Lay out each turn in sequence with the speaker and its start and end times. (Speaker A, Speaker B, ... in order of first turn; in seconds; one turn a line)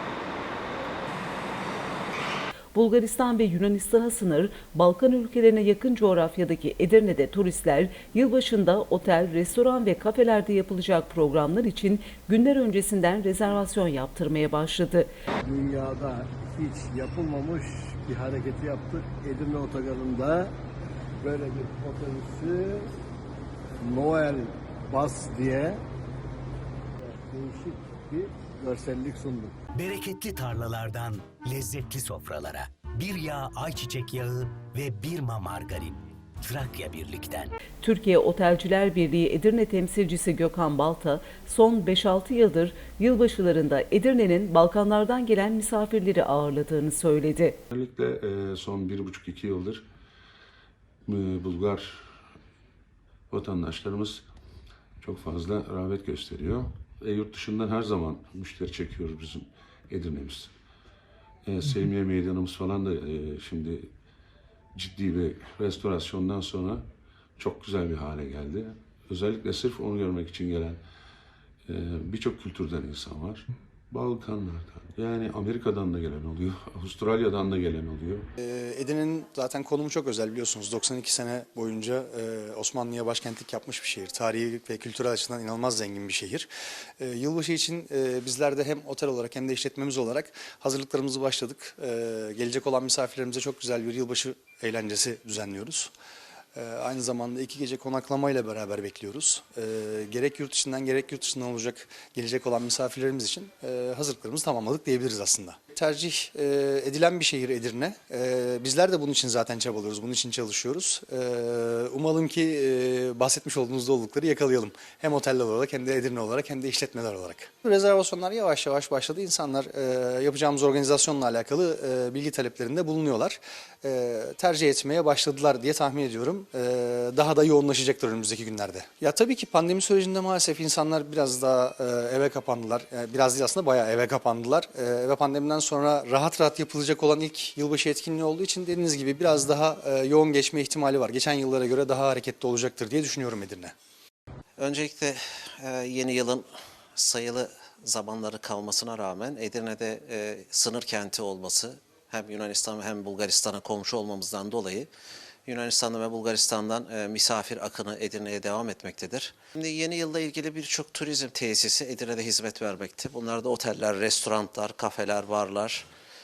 Speaker A: 2.7-15.1
Speaker B: 15.4-20.5
Speaker B: 21.2-22.9
Speaker B: 23.8-25.9
Speaker B: 27.0-29.6
Speaker C: 29.8-37.5
Speaker A: 37.8-47.6
Speaker D: 47.7-49.8
Speaker D: 51.0-52.0
Speaker D: 53.3-54.3
Speaker D: 55.0-60.5
Speaker D: 61.4-63.9
Speaker D: 64.7-70.8
Speaker D: 71.7-78.3
Speaker E: 78.4-95.9
Speaker E: 96.5-143.7
Speaker F: 144.6-154.9
Speaker F: 155.4-165.9